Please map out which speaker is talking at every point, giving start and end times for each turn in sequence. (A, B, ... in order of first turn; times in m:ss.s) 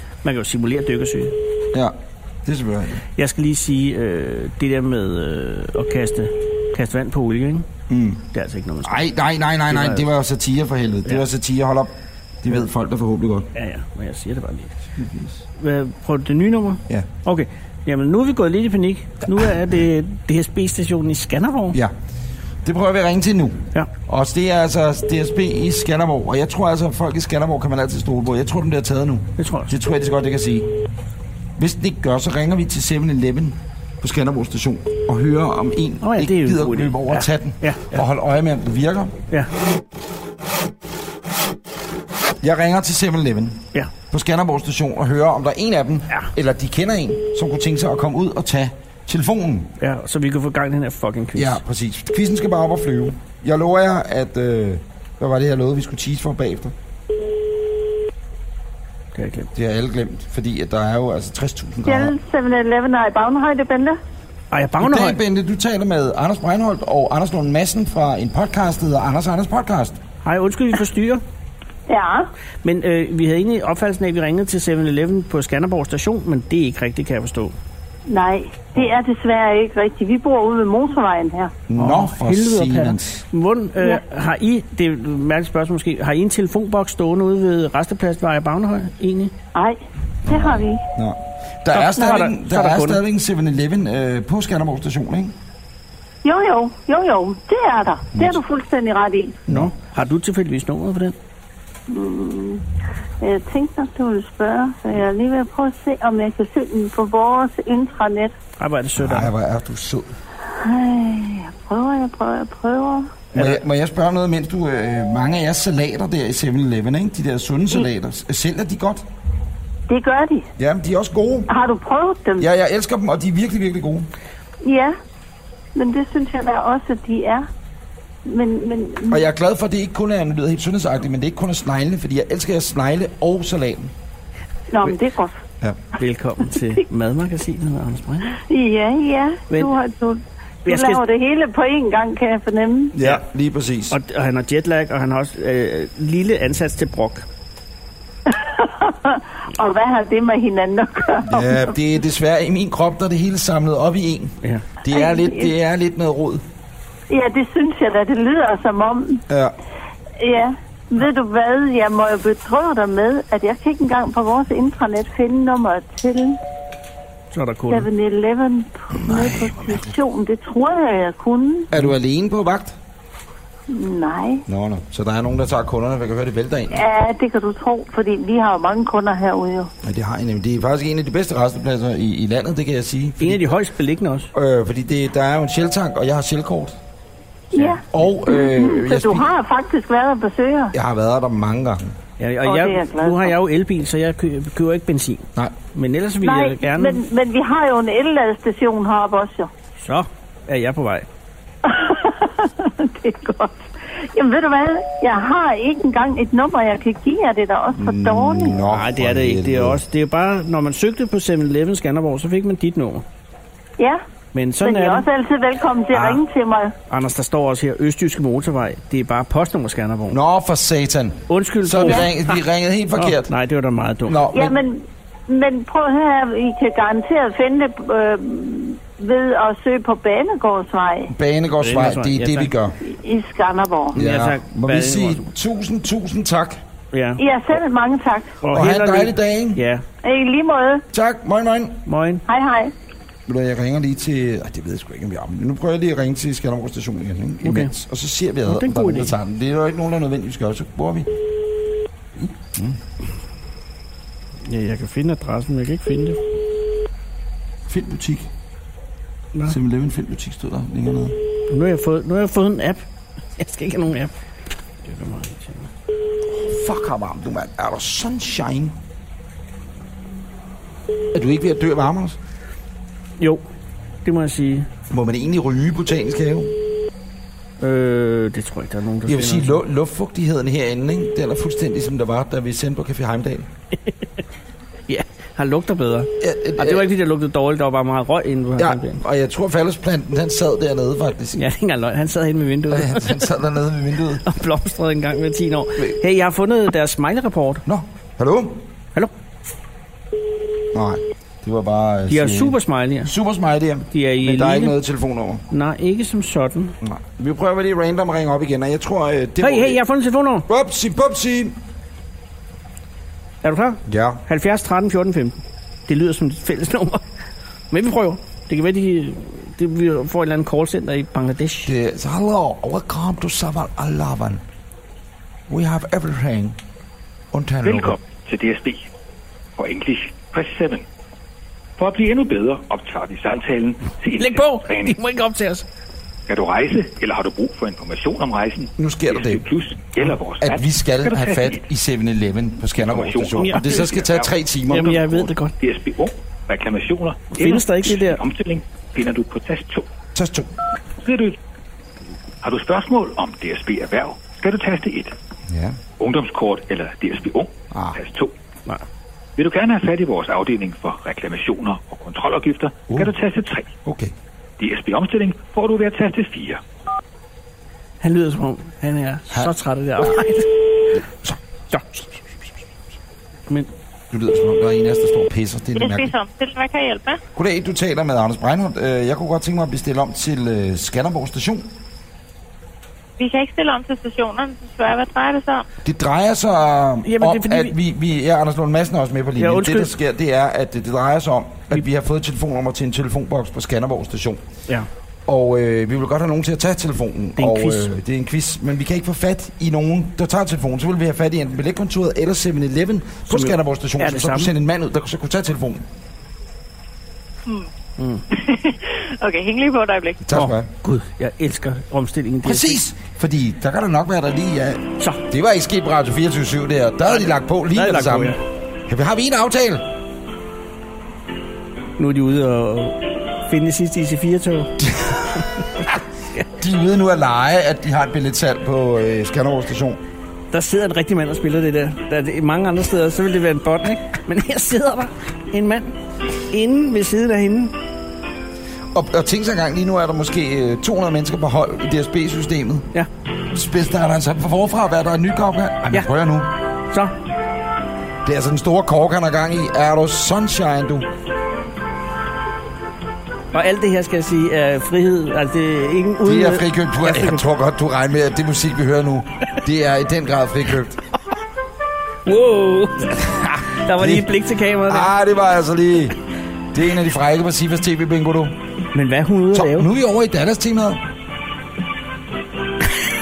0:00.2-0:01.4 A
0:01.7-0:03.0 B
0:03.2-0:07.7 A
0:07.9-0:08.2 B
0:08.3-0:09.0 A
0:08.8-0:13.5 B
0:09.7-0:10.1 A
0:13.5-0:14.8 A
0:15.0-0:15.4 B
0:15.6-0:21.8 A
0:22.6-0:30.7 B
0:29.4-0:29.7 A
0:31.6-0:39.2 B
0:36.0-0:38.0 A
0:42.4-0:49.7 B
0:49.8-0:51.6 A
0:51.3-0:56.7 B
0:59.1-0:59.5 A
0:59.5-1:02.2 B
1:01.8-1:04.0 C
1:04.5-1:05.2 A
1:04.8-1:10.0 B
1:10.2-1:11.2 A
1:11.9-1:12.3 C
1:12.6-1:17.5 A
1:18.1-1:21.5 C
1:21.7-1:23.2 B
1:21.8-1:29.3 A
1:29.5-1:30.8 C
1:30.2-1:35.3 B
1:31.7-1:33.0 A
1:36.2-1:39.4 C
1:38.1-1:38.4 B
1:39.5-1:39.7 B
1:39.5-1:41.2 A
1:41.9-1:42.6 C
1:43.2-1:48.3 C
1:48.6-1:49.3 A
1:49.0-1:50.1 B
1:50.5-1:53.2 C
1:53.3-1:59.0 B
1:53.3-1:53.6 A
1:59.9-2:00.5 C
2:00.6-2:01.5 B
2:01.5-2:02.5 C
2:02.4-2:04.1 B
2:04.6-2:05.0 C
2:05.7-2:07.5 C
2:08.2-2:09.2 C
2:09.1-2:13.9 B
2:14.7-2:15.4 C
2:16.0-2:18.4 A
2:18.4-2:23.0 C
2:20.6-2:21.0 A
2:22.9-2:24.0 B
2:23.9-2:27.2 A
2:28.2-2:31.7 C
2:31.2-2:36.4 B
2:34.9-2:35.5 C
2:37.1-2:39.2 C
2:39.3-2:39.5 B
2:40.2-2:46.4 C
2:47.3-2:47.9 A
2:47.7-2:51.7 C
2:48.9-2:49.9 B
2:51.7-2:52.7 B
2:53.7-2:54.4 C
2:54.5-2:56.9 B
2:56.7-2:59.7 C
2:59.8-3:03.6 B
3:03.2-3:04.3 A
3:04.3-3:06.8 B
3:07.5-3:10.7 C
3:07.5-3:07.8 A
3:07.9-3:09.3 B
3:10.7-3:11.9 B
3:12.2-3:17.0 A
3:12.4-3:13.4 C
3:16.2-3:19.5 C
3:19.8-3:21.1 A
3:21.6-3:28.6 C
3:27.7-3:29.8 B
3:28.7-3:33.0 A
3:34.3-3:35.1 A
3:34.6-3:36.7 C
3:35.9-3:36.2 A
3:36.9-3:40.2 A
3:40.1-3:43.3 B
3:41.3-3:42.3 A
3:43.0-3:44.2 A
3:44.0-3:44.6 B
3:44.3-3:51.1 C
3:51.1-3:52.8 B
3:51.6-3:52.5 A
3:52.8-3:54.0 C
3:53.9-3:55.2 A
3:53.9-3:56.6 B
3:56.9-3:57.2 A
3:57.2-3:58.4 C
3:58.4-3:59.8 A
3:58.5-3:59.6 B
4:00.0-4:00.8 C
4:00.9-4:01.8 B
4:01.9-4:02.2 A
4:02.3-4:02.7 C
4:03.3-4:11.1 B
4:07.4-4:07.7 A
4:08.4-4:09.1 A
4:14.4-4:16.2 A
4:17.7-4:18.3 B
4:19.4-4:21.2 B
4:21.5-4:22.8 A
4:23.4-4:24.1 A
4:24.8-4:25.7 A
4:26.3-4:28.8 B
4:31.1-4:32.2 B
4:34.0-4:34.7 A
4:34.9-4:36.6 B
4:37.6-4:39.6 A
4:39.0-4:43.5 B
4:44.9-4:49.0 A
4:46.2-4:46.9 B
4:48.6-4:51.4 B
4:51.4-4:53.3 A
4:52.7-4:54.2 B
4:54.2-4:57.6 A
4:57.6-4:58.6 B
5:00.7-5:05.4 B
5:02.1-5:03.1 A
5:03.9-5:04.7 A
5:05.5-5:06.8 A
5:06.8-5:09.8 B
5:09.4-5:10.5 A
5:10.5-5:11.6 B
5:13.4-5:17.0 A
5:13.8-5:14.2 B
5:17.7-5:21.7 A
5:21.6-5:24.4 B
5:25.5-5:26.6 B
5:27.3-5:28.0 B
5:27.6-5:28.9 D
5:29.6-5:30.8 D
5:31.8-5:35.0 D
5:34.2-5:35.6 A
5:36.3-5:41.6 D
5:38.8-5:39.4 B
5:40.4-5:45.3 B
5:42.8-5:44.3 D
5:43.4-5:43.8 A
5:44.7-5:45.5 A
5:45.6-5:49.8 D
5:47.3-5:48.2 A
5:50.1-5:50.5 B
5:51.0-5:51.4 D
5:52.4-5:55.1 D
5:55.5-5:55.8 B
5:56.0-5:58.3 D
5:57.7-5:58.0 B
5:59.4-6:03.7 D
6:03.8-6:04.1 B
6:04.6-6:06.6 D
6:08.0-6:10.5 A
6:10.9-6:11.4 B
6:11.7-6:12.1 A
6:14.1-6:16.1 B
6:15.8-6:17.2 E
6:17.4-6:21.7 B
6:23.2-6:25.6 E
6:25.8-6:34.4 B
6:27.0-6:27.7 A
6:29.4-6:29.9 A
6:35.3-6:45.9 B
6:37.4-6:37.9 A
6:43.3-6:44.5 A
6:48.0-6:48.2 A
6:48.3-6:50.2 E
6:50.2-6:50.7 B
6:50.3-6:52.8 A
6:52.4-6:59.9 B
6:57.0-6:58.4 A
7:02.0-7:05.8 A
7:04.9-7:05.8 B
7:06.5-7:10.0 B
7:10.5-7:16.0 A
7:16.5-7:17.7 A
7:18.9-7:22.9 B
7:23.5-7:26.5 B
7:28.2-7:31.1 B
7:33.5-7:37.4 A
7:36.2-7:41.0 B
7:42.2-7:45.1 A
7:43.2-7:44.3 B
7:44.8-7:46.1 B
7:46.7-7:48.6 B
7:48.9-7:49.9 A
7:49.5-7:51.0 B